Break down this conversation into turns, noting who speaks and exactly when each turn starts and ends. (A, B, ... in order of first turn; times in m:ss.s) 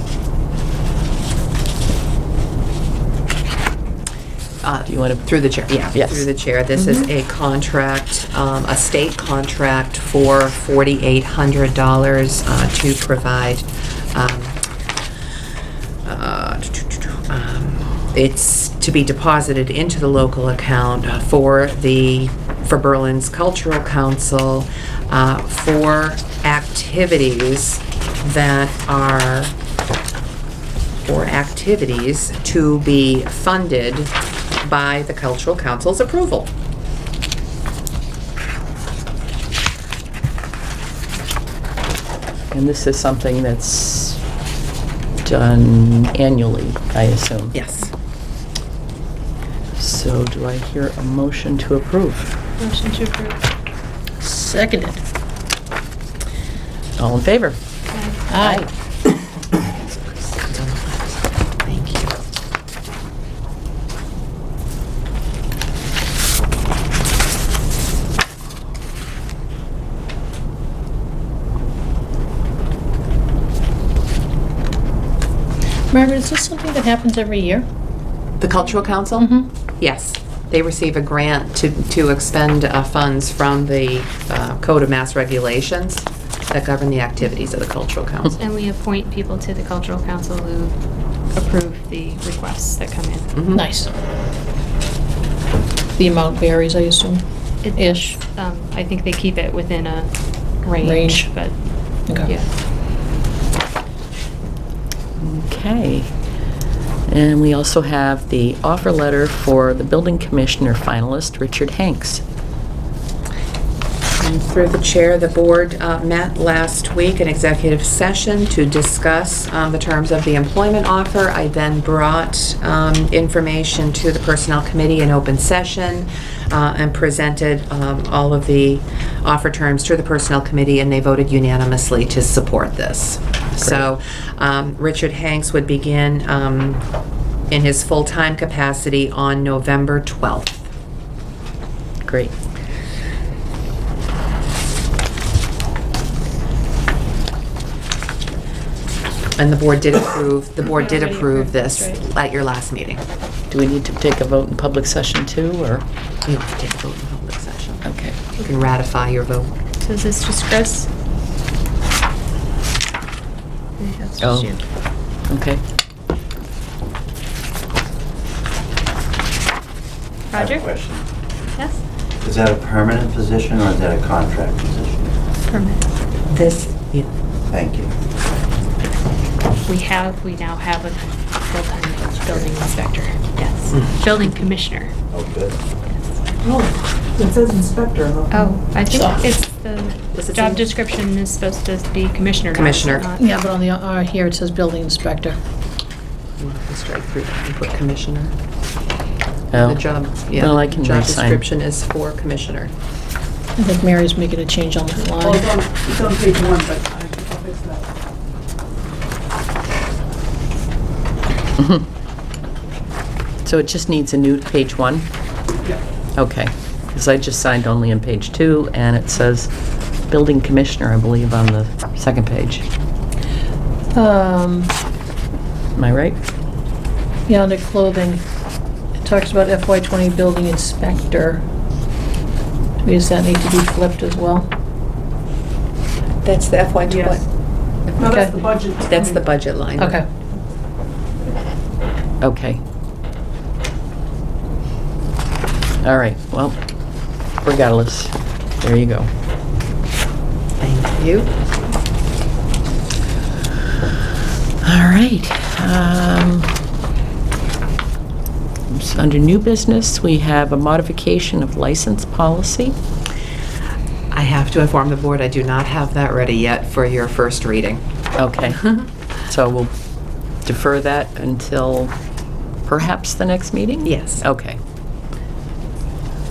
0:04.6-0:14.6 A
0:04.9-0:05.2 B
0:05.9-0:07.1 B
0:16.0-0:29.5 A
0:31.0-0:36.5 A
0:42.5-0:44.2 B
0:45.2-0:47.6 B
0:47.5-0:47.9 A
0:49.8-0:52.3 B
0:52.6-0:53.4 C
0:54.2-0:55.0 D
0:57.0-0:57.6 B
0:57.9-0:58.2 C
0:58.3-0:58.7 D
0:59.7-1:02.2 A
1:15.9-1:17.7 D
1:18.4-1:19.3 A
1:19.2-1:19.5 D
1:19.8-1:28.4 A
1:28.4-1:30.8 C
1:31.3-1:33.4 C
1:33.3-1:33.6 A
1:33.5-1:33.9 D
1:36.0-1:37.2 D
1:37.6-1:41.6 C
1:37.8-1:38.2 D
1:40.8-1:41.3 D
1:42.1-1:42.4 D
1:45.2-1:46.1 B
1:47.1-1:52.2 B
1:54.2-2:16.8 A
2:17.5-2:20.7 A
2:22.0-2:22.3 B
2:29.4-2:33.0 A
2:30.6-2:32.0 C
2:33.5-2:35.8 B
2:36.2-2:37.8 A
2:37.8-2:38.2 B
2:38.4-2:39.5 A
2:39.8-2:40.9 C
2:43.8-2:44.6 C
2:44.2-2:44.6 B
2:45.3-2:45.6 B
2:50.3-2:50.7 C
2:50.3-2:51.1 E
2:51.6-2:51.8 C
2:52.2-2:55.2 E
2:55.5-2:55.8 C
2:56.3-2:57.1 A
2:57.5-2:57.9 E
2:59.7-3:04.9 C
3:02.2-3:03.0 D
3:05.1-3:05.6 E
3:08.3-3:13.3 C
3:08.9-3:09.3 D
3:10.1-3:10.6 A
3:12.5-3:13.1 A
3:13.2-3:15.4 D
3:16.4-3:18.3 A
3:19.5-3:21.4 B
3:19.5-3:22.7 A
3:23.6-3:25.6 D
3:25.2-3:27.8 F
3:33.4-3:35.1 B
3:36.2-3:39.5 B
3:40.1-3:42.6 B
3:43.9-3:44.7 D
3:45.8-3:46.2 B
3:47.3-3:48.2 D
3:49.0-3:51.4 D
3:52.8-3:54.5 D
3:56.2-3:57.2 A
3:56.9-3:57.2 F
3:58.0-3:59.2 F
3:58.0-3:58.4 D
3:58.8-4:00.0 A
3:59.8-4:00.0 D
4:02.2-4:02.6 B
4:05.8-4:06.6 B
4:07.4-4:09.1 B
4:10.6-4:11.3 A
4:14.6-4:16.5 B
4:18.7-4:22.8 B
4:24.1-4:27.8 A
4:28.2-4:29.7 B
4:30.4-4:31.9 B
4:32.7-4:34.6 B
4:33.8-4:34.2 A